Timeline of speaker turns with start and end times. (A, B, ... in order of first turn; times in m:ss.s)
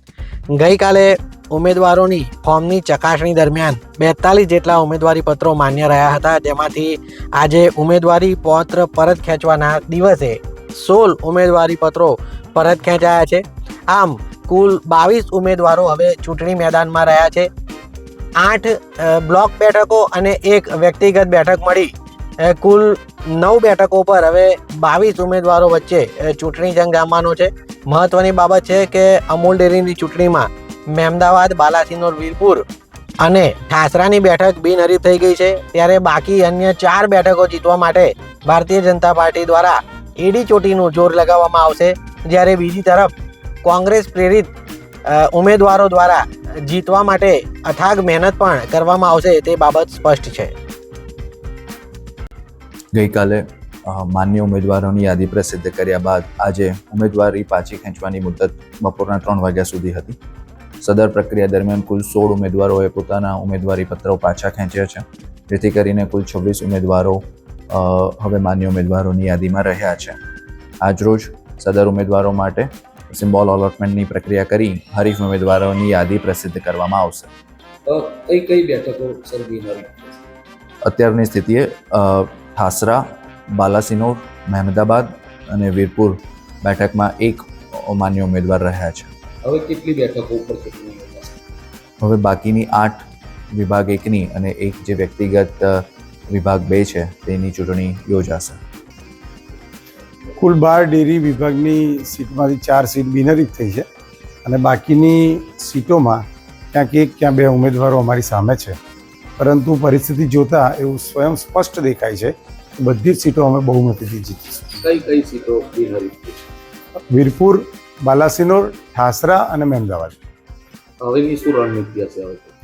0:00.6-0:17.5 A
0:18.4-0:32.6 A
0:33.2-0:43.1 A
0:43.6-0:44.5 A
0:45.1-0:50.5 A
0:52.9-1:00.2 B
1:00.8-1:10.2 B
1:10.8-1:17.3 B
1:17.9-1:20.2 C
1:20.8-1:29.1 B
1:29.4-1:31.4 C
1:32.0-1:33.0 B
1:33.5-1:35.8 B
1:36.3-1:38.6 B
1:40.4-1:43.9 D
1:44.4-1:48.8 D
1:49.4-1:54.7 D
1:54.8-1:56.4 C
1:57.1-2:00.2 D
2:01.0-2:02.5 C